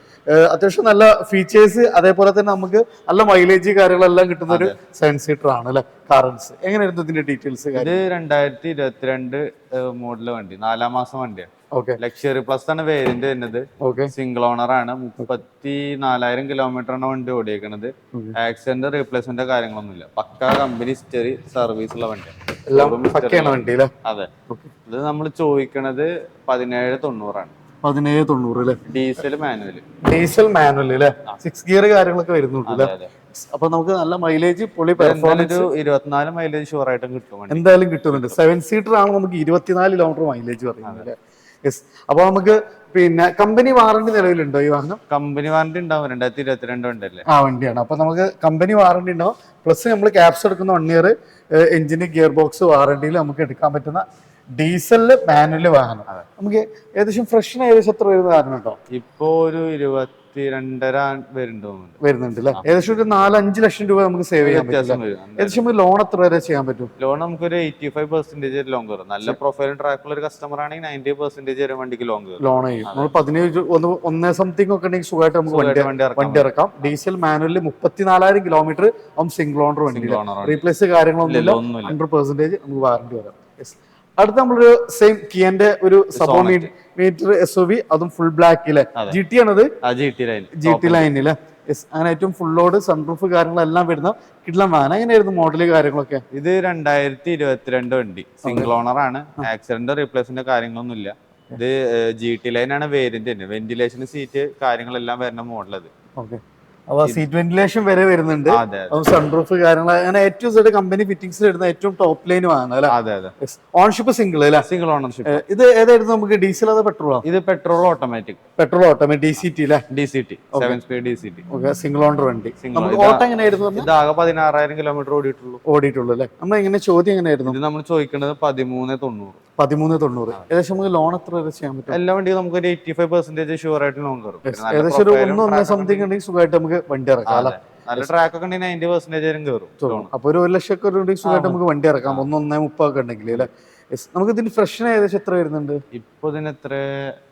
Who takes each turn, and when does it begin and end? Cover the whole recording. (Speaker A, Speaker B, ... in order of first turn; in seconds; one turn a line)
Speaker A: 0.3-8.1
Speaker B: 4.5-4.8
Speaker B: 7.8-24.3
Speaker A: 11.7-12.0
Speaker A: 13.8-14.1
Speaker A: 22.7-23.9
Speaker B: 24.9-27.5
Speaker A: 27.8-28.8
Speaker B: 28.8-29.8
Speaker A: 30.0-35.7
Speaker B: 32.6-33.1
Speaker B: 35.0-38.4
Speaker A: 37.5-45.0
Speaker B: 45.1-47.2
Speaker A: 47.3-54.0
Speaker A: 54.6-58.8
Speaker B: 58.9-62.6
Speaker A: 62.0-66.9
Speaker B: 64.4-65.7
Speaker B: 67.0-73.1
Speaker A: 72.4-89.7
Speaker B: 75.5-76.5
Speaker B: 79.9-80.6
Speaker B: 81.2-82.0
Speaker B: 86.1-86.7
Speaker B: 89.8-91.1
Speaker A: 90.5-96.2
Speaker B: 96.3-105.9
Speaker A: 98.4-98.7
Speaker A: 106.2-114.7
Speaker B: 108.5-109.0
Speaker B: 112.9-113.3
Speaker B: 114.6-115.4
Speaker A: 115.2-117.2
Speaker B: 117.2-118.4
Speaker A: 118.6-119.8
Speaker B: 119.9-121.4
Speaker A: 121.5-123.9
Speaker B: 122.6-125.6
Speaker A: 125.7-127.5
Speaker B: 127.4-129.4
Speaker A: 129.6-132.0
Speaker B: 131.9-136.1
Speaker A: 134.4-138.1
Speaker B: 137.3-140.1
Speaker A: 139.8-145.8
Speaker B: 141.2-142.3
Speaker B: 145.9-147.1